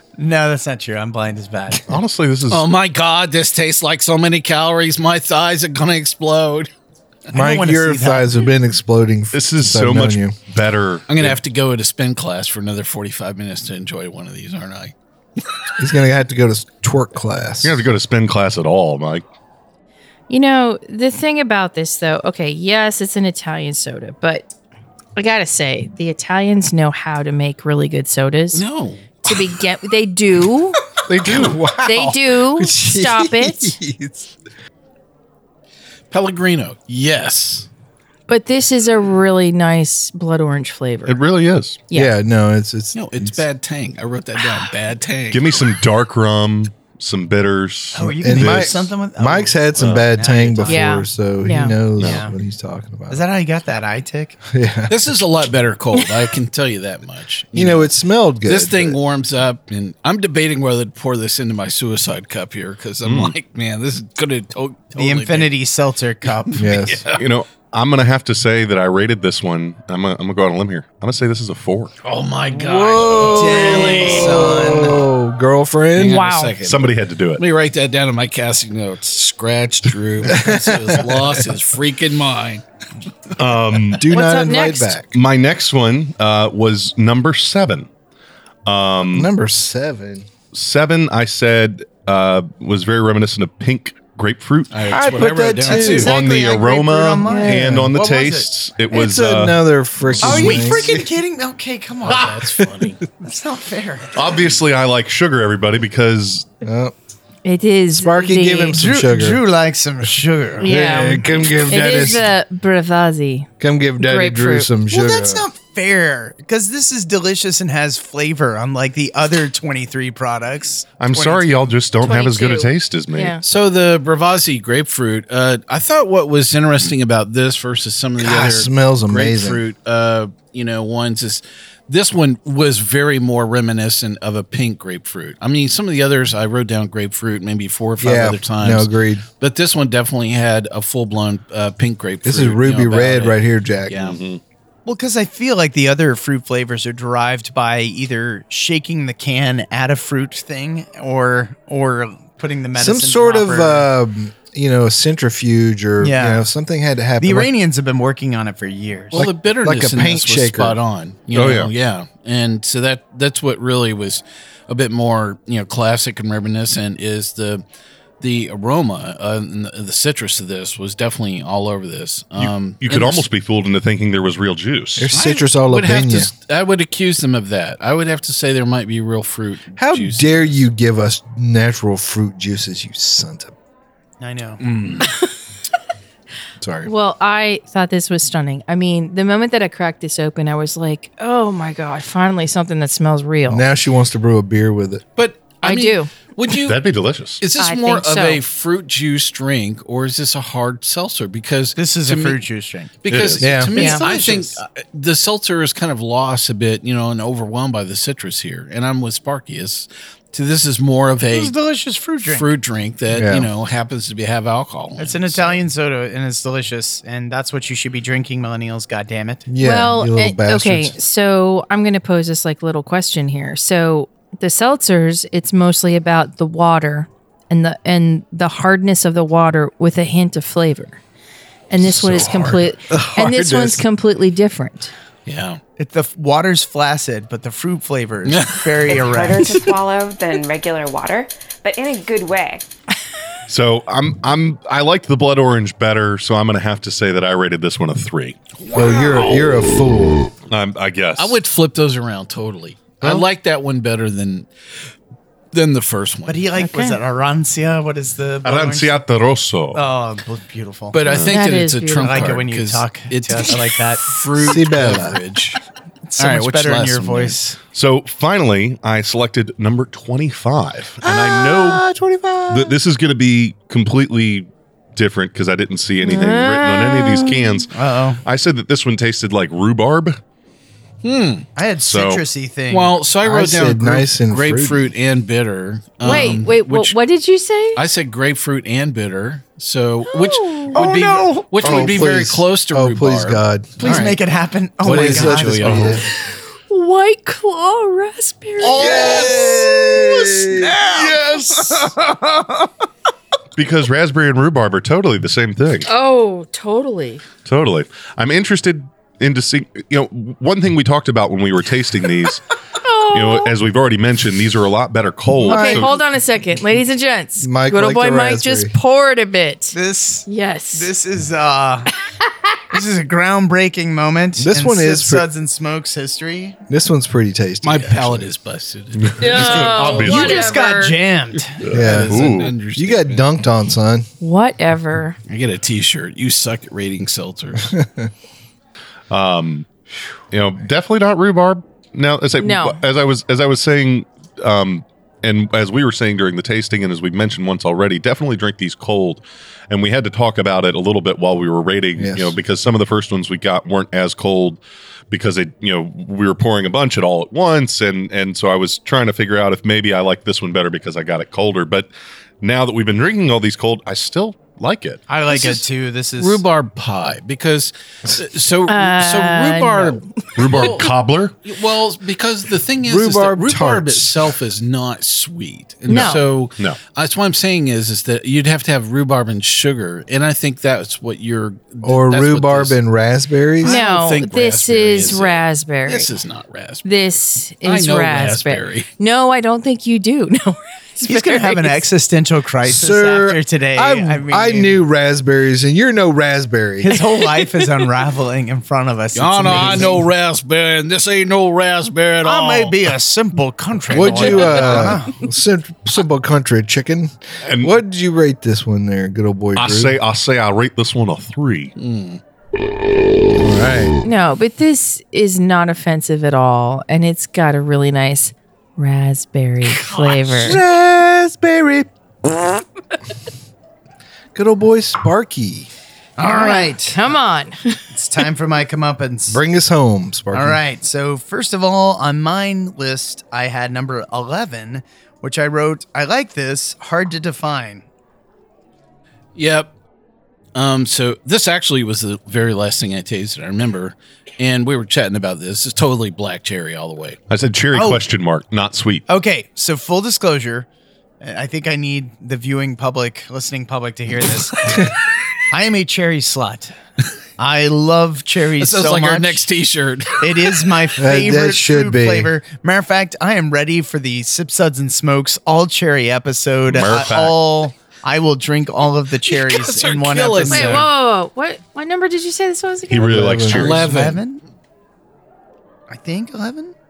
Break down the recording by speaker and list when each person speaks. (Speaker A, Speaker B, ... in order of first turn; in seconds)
Speaker A: 0.2-1.9, 7.3-8.4, 47.9-50.9, 52.0-52.3, 53.1-54.4, 65.0-66.7, 73.3-75.0, 95.1-98.5, 100.2-102.6, 103.2-104.3, 108.7-110.7, 114.9-121.7, 144.9-153.9, 156.0-156.4, 157.2-159.2, 184.2-184.6, 201.8-202.9, 203.7-204.6, 211.3-212.5, 215.0-219.5, 235.8-239.7, 256.3-259.0, 259.7-261.0, 262.0-264.6, 266.1-267.6, 271.1-271.7, 277.7-278.2, 281.6-283.0, 290.8-292.0, 293.8-296.0, 298.6-302.7, 319.7-321.9, 322.7-326.6, 329.7-331.6, 365.1-366.4, 391.1-394.8, 396.9-400.1, 402.2-405.2, 426.2-427.1, 427.9-429.4, 430.3-437.9, 447.7-448.0, 449.1-450.7, 451.2-454.9, 455.5-456.8, 457.4-459.4, 460.2-470.9, 473.5-474.4, 475.9-476.7
Speaker B: 1.9-2.6, 9.3-11.4, 17.6-19.2, 31.1-31.6, 41.1-41.8, 45.3-48.9, 49.8-50.1, 52.0-52.2, 63.0-63.3, 67.1-71.9, 76.6-77.4, 83.4-84.1, 85.1-87.9, 88.7-89.3, 90.5-94.8, 96.0-99.6, 100.2-100.6, 104.1-106.5, 121.0-123.4, 144.0-144.4, 161.3-161.7, 172.4-175.1, 196.5-197.4, 203.1-203.6, 243.5-248.4, 250.5-251.4, 258.4-259.8, 261.1-261.4, 267.7-271.8, 272.5-277.7, 278.2-280.2, 281.8-282.2, 300.9-301.9, 303.6-305.9, 307.5-312.4, 313.1-315.9, 329.1-330.5, 331.6-332.5, 339.1-339.7, 340.3-361.9, 362.4-365.0, 370.4-371.4, 375.9-376.8, 407.4-407.8, 409.6-411.7, 447.3-449.0, 466.7-467.4, 472.9-473.9
Speaker C: 2.5-6.7, 11.1-14.9, 28.5-29.2, 36.1-37.7, 42.9-45.5, 54.9-57.9, 58.4-65.5, 66.3-67.2, 72.0-74.9, 76.0-82.6, 94.7-96.1, 102.0-103.0, 123.4-144.2, 159.1-167.6, 168.2-173.3, 175.1-180.5, 184.6-185.1, 195.2-196.8, 197.4-202.4, 203.0-211.5, 212.2-215.6, 231.9-232.6, 235.3-235.6, 238.2-239.1, 248.6-249.4, 251.2-254.5, 255.5-256.4, 260.9-265.6, 266.2-267.4, 281.0-281.5, 282.7-287.0, 287.8-294.2, 294.8-296.0, 327.6-329.7, 331.7-333.3, 335.3-337.7, 365.3-365.6, 366.2-370.9, 371.4-382.8, 383.6-386.9, 387.6-388.9, 399.1-402.8, 403.9-405.0, 411.8-412.2, 419.6-420.5, 439.4-439.7, 440.6-447.2, 458.6-460.7, 469.3-470.9, 473.5-474.2
Speaker D: 7.3-10.4, 15.8-17.9, 31.2-34.3, 41.9-43.4, 48.0-53.2, 54.5-55.0, 57.5-59.0, 66.6-67.0, 72.5-76.3, 80.2-81.5, 83.9-85.1, 89.1-90.3, 94.9-96.1, 97.5-97.9, 98.9-101.1, 106.6-106.9, 107.9-109.4, 110.6-112.3, 113.6-115.5, 128.2-129.6, 138.0-139.2, 142.2-144.2, 152.7-157.5, 159.1-160.8, 175.0-176.3, 179.8-183.5, 186.6-186.9, 193.5-195.0, 203.4-203.8, 213.1-213.5, 219.5-220.9, 232.9-233.8, 248.7-250.3, 264.4-265.2, 271.7-272.7, 283.2-284.9, 290.8-294.1, 294.8-296.1, 298.6-300.8, 315.4-316.0, 317.4-318.7, 324.4-325.3, 326.7-328.3, 331.7-334.1, 337.6-338.1, 352.0-352.3, 372.8-374.3, 381.8-383.8, 392.7-397.0, 399.5-399.9, 403.9-409.9, 413.4-413.9, 420.4-421.9, 424.4-425.7, 429.3-430.6, 461.0-462.3, 473.0-473.7
Speaker E: 20.3-24.5, 25.2-28.6, 29.2-30.8, 31.8-33.8, 38.3-41.2, 50.7-51.8, 76.0-76.5, 84.1-85.0, 97.3-97.6, 107.5-108.8, 110.6-114.7, 122.0-123.4, 186.8-193.6, 195.6-196.1, 197.6-198.4, 203.8-204.0, 219.6-231.0, 231.7-234.9, 256.6-257.0, 261.3-262.4, 276.0-277.7, 286.0-287.8, 290.1-290.8, 296.7-299.0, 305.9-307.2, 312.8-313.5, 315.4-320.9, 329.2-331.0, 334.2-335.2, 342.4-342.8, 368.7-370.7, 375.9-376.2, 383.6-386.1, 386.8-391.8, 414.0-420.6, 426.2-427.8, 470.5-473.2
Speaker F: 238.9-242.7